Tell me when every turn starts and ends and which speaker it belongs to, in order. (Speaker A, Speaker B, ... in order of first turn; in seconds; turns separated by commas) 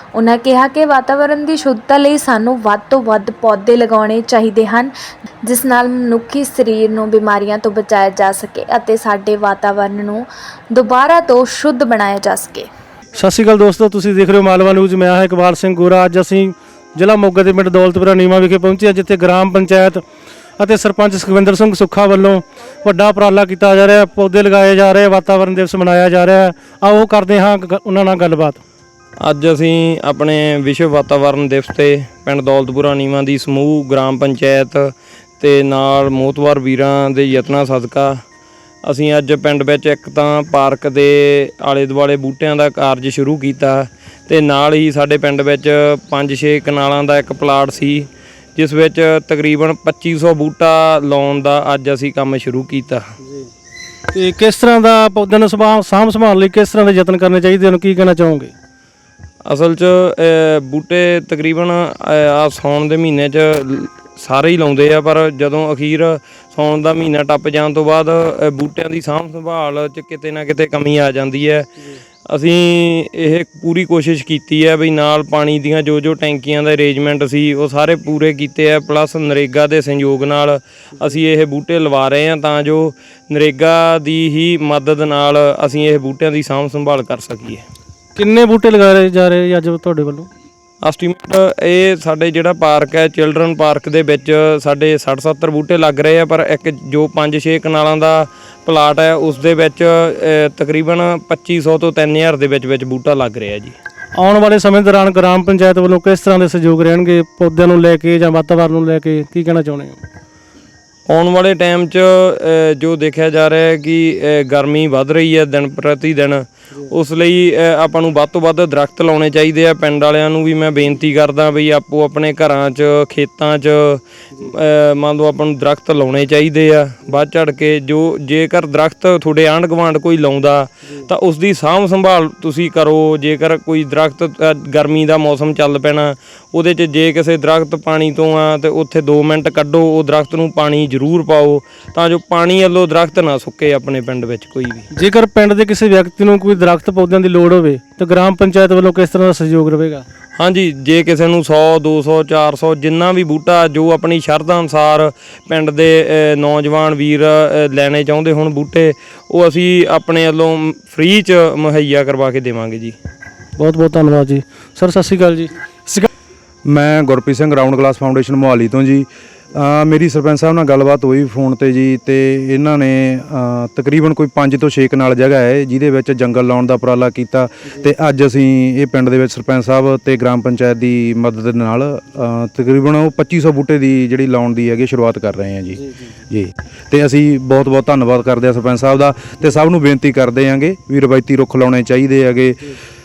Speaker A: 0.1-4.9, Speaker A: 5.4-12.7, Speaker B: 13.2-20.0, Speaker B: 20.6-28.6, Speaker C: 29.2-38.2, Speaker C: 38.8-53.1, Speaker B: 54.1-58.5, Speaker C: 59.5-71.7, Speaker C: 72.3-87.7, Speaker B: 88.2-90.3, Speaker C: 90.8-103.8, Speaker B: 104.2-110.0, Speaker C: 111.1-144.9, Speaker B: 144.9-150.1, Speaker C: 150.4-163.0, Speaker B: 163.6-166.1, Speaker D: 166.7-192.7